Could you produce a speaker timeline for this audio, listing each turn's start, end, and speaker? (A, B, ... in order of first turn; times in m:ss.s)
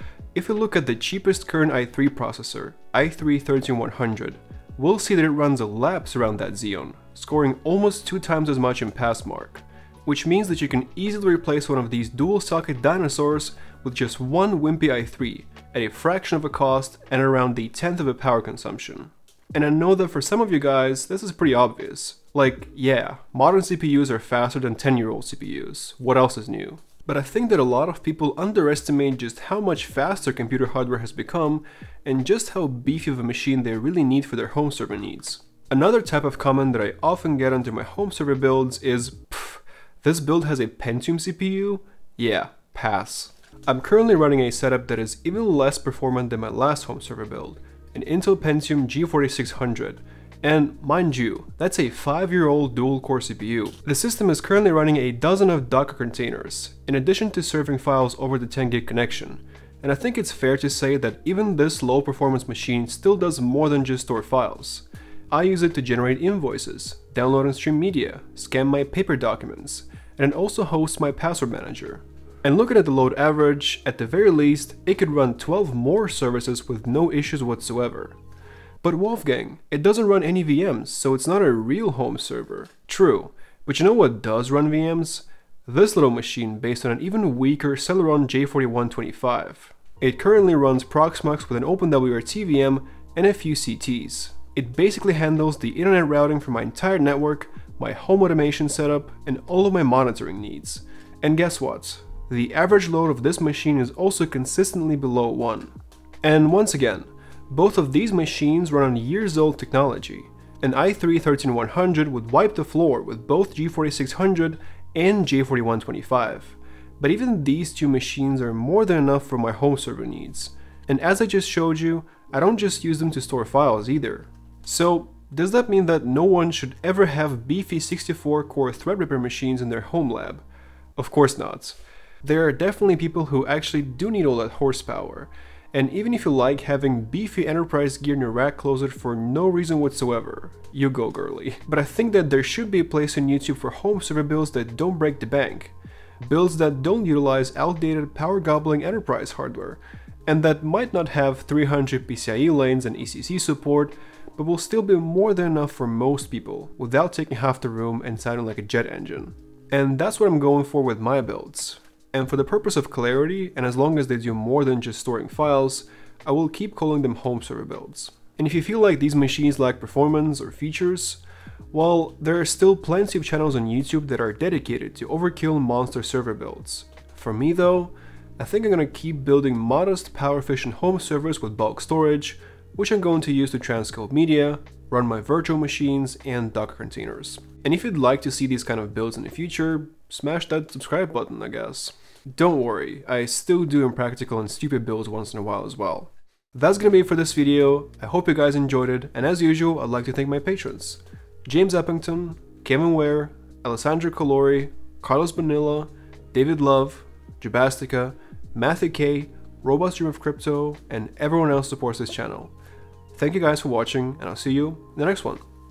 0:00.3-1:18.2 A
1:18.8-2:10.4 A
2:11.0-2:51.2 A
2:51.7-3:32.5 A
3:33.1-3:35.4 A